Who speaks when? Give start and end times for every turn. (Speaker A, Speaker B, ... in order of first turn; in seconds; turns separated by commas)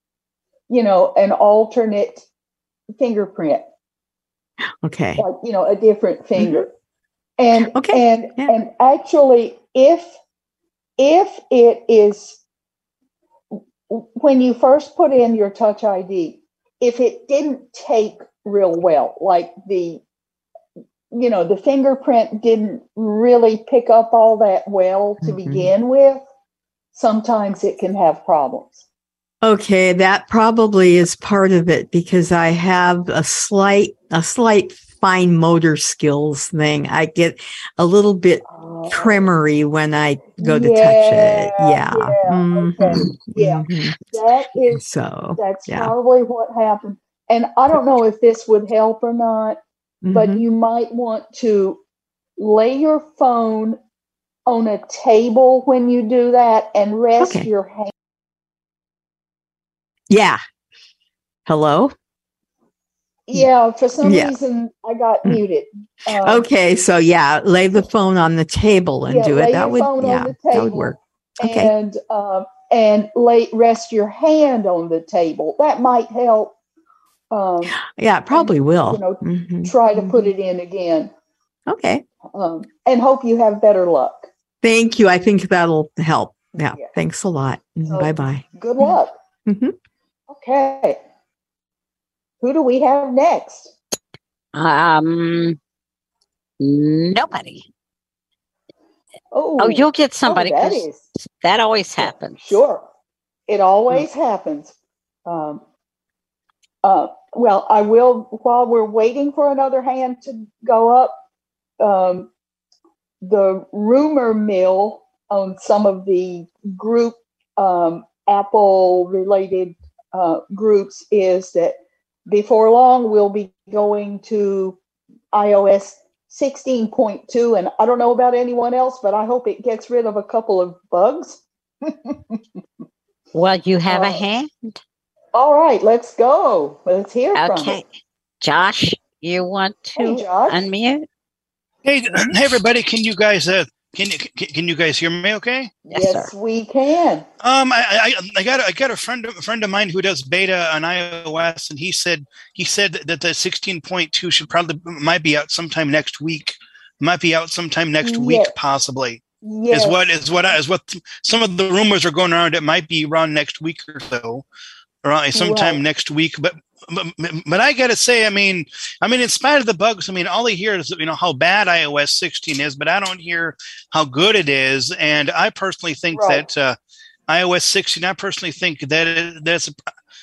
Speaker A: 0.7-2.3, Speaker A: 3.0-3.7, Speaker B: 4.8-5.2, Speaker A: 5.2-6.7, Speaker B: 6.4-6.7, Speaker A: 7.4-10.2, Speaker B: 7.7-8.5, Speaker A: 11.0-12.4, Speaker A: 13.9-20.0, Speaker A: 21.1-26.2, Speaker B: 25.2-25.7, Speaker A: 26.9-28.9, Speaker B: 29.4-44.0, Speaker A: 38.5-39.3, Speaker A: 40.4-51.8, Speaker B: 44.7-45.9, Speaker B: 50.0-50.4, Speaker A: 52.4-53.8, Speaker A: 54.5-57.9, Speaker B: 57.2-57.5, Speaker B: 60.1-60.4, Speaker B: 61.5-61.9, Speaker A: 63.3-66.5, Speaker B: 64.0-64.3, Speaker B: 66.2-71.7, Speaker A: 69.1-76.5, Speaker A: 77.3-77.8, Speaker B: 78.0-80.3, Speaker A: 78.3-81.1, Speaker B: 81.7-82.0, Speaker A: 82.3-84.3, Speaker B: 84.6-89.7, Speaker A: 86.6-86.9, Speaker A: 87.9-89.1, Speaker A: 90.3-91.0, Speaker A: 92.4-93.7, Speaker C: 94.5-95.6, Speaker C: 96.6-97.7, Speaker A: 99.3-101.1, Speaker C: 99.6-102.6, Speaker A: 102.0-102.9, Speaker A: 103.5-104.7, Speaker A: 105.3-105.6, Speaker A: 106.8-111.2, Speaker A: 111.8-112.3, Speaker A: 113.2-124.8, Speaker A: 125.3-132.4, Speaker C: 133.3-134.5, Speaker A: 133.9-134.2, Speaker A: 135.3-137.8, Speaker C: 137.3-137.9, Speaker C: 138.4-141.1, Speaker A: 140.0-140.6, Speaker D: 141.8-145.7, Speaker C: 145.9-146.3, Speaker A: 145.9-147.3, Speaker D: 147.4-164.4, Speaker A: 158.0-158.5, Speaker A: 159.4-160.1, Speaker D: 165.0-176.8, Speaker A: 165.3-165.8, Speaker A: 176.1-176.4, Speaker D: 177.3-179.8